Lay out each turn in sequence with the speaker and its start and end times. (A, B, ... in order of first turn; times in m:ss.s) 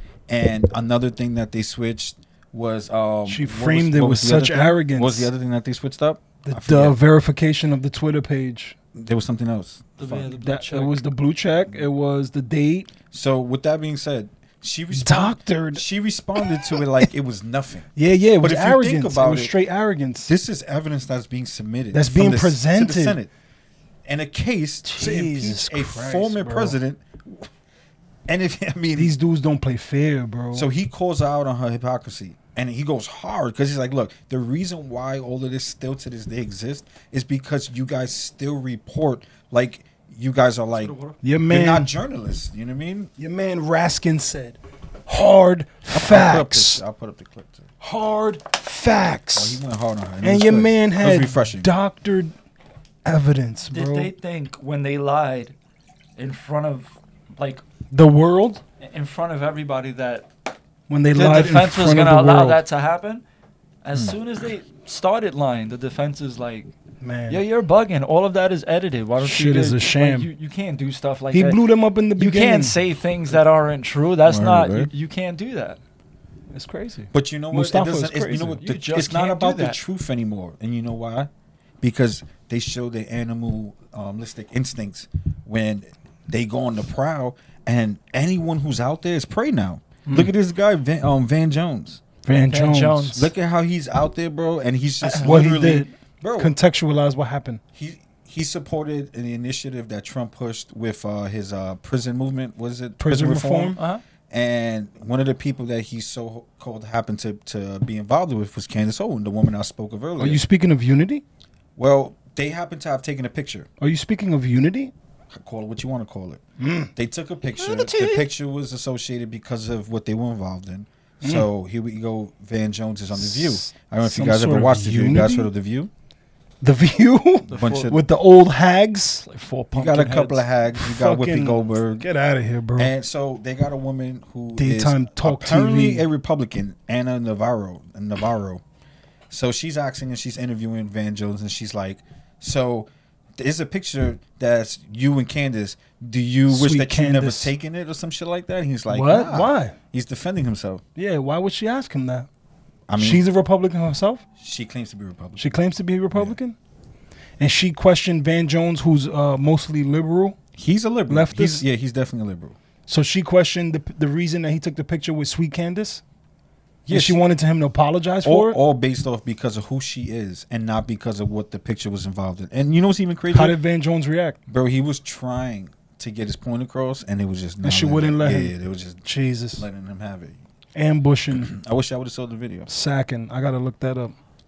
0:00.3-0:07.0 A
0:03.3-0:05.3 B
0:06.4-0:08.8 B
0:09.0-0:10.3 A
0:10.0-0:11.0 C
0:10.4-0:12.9 B
0:13.1-0:19.5 A
0:14.9-0:15.8 B
0:16.4-0:16.8 B
0:18.0-0:20.3 B
0:20.3-0:23.3 A
0:21.9-0:23.2 B
0:24.1-0:27.5 A
0:24.8-0:26.8 B
0:28.3-0:29.1 A
0:29.0-0:30.7 B
0:30.5-0:41.0 A
0:40.8-0:41.2 C
0:41.2-0:41.9 B
0:41.5-0:43.1 A
0:43.2-0:46.8 B
0:45.9-0:47.7 A
0:47.8-0:49.6 B
0:49.4-0:51.7 A
0:50.2-0:52.3 B
0:53.0-0:54.1 B
0:53.7-0:55.6 C
0:56.2-0:57.6 C
0:57.9-0:58.6 B
0:58.8-1:00.3 C
1:00.9-1:02.6 B
1:01.1-1:03.2 C
1:03.8-1:06.7 C
1:07.0-1:07.4 B
1:07.3-1:11.6 C
1:09.2-1:10.3 B
1:11.3-1:12.8 B
1:12.2-1:15.8 C
1:14.2-1:14.9 A
1:16.5-1:18.6 B
1:17.1-1:21.3 A
1:18.6-1:19.8 C
1:21.8-1:32.0 A
1:32.2-1:33.2 B
1:32.5-1:33.3 C
1:33.2-1:36.6 A
1:35.0-1:37.6 B
1:37.8-1:43.8 A
1:43.0-1:43.8 B
1:43.8-1:44.0 C
1:44.3-1:50.4 A
1:50.2-1:51.2 B
1:51.8-1:53.7 A
1:53.8-1:54.9 B
1:55.3-1:56.4 A
1:56.6-1:56.9 B
1:57.0-2:05.9 A
1:57.6-1:58.3 C
2:01.2-2:01.5 B
2:03.2-2:05.5 B
2:06.6-2:09.2 B
2:07.5-2:08.0 C
2:07.5-2:08.0 A
2:09.2-2:10.4 C
2:09.7-2:12.0 A
2:10.7-2:12.9 B
2:12.8-2:18.6 A
2:14.6-2:16.1 B
2:19.3-2:30.8 A
2:26.5-2:27.5 B
2:28.9-2:29.8 B
2:31.0-2:32.3 B
2:32.9-2:33.2 A
2:33.0-2:34.2 B
2:34.4-2:35.6 A
2:35.4-2:36.6 B
2:37.4-2:40.4 B
2:40.6-2:42.6 A
2:41.1-2:41.6 B
2:42.9-2:46.0 B
2:46.9-2:47.2 A
2:46.9-2:48.6 B
2:48.2-2:53.6 A
2:53.3-2:54.4 B
2:54.5-2:59.0 A
2:57.6-2:58.5 B
2:59.0-2:59.7 B
2:59.6-3:00.4 A
3:00.8-3:01.5 B
3:01.4-3:02.7 A
3:02.7-3:04.2 B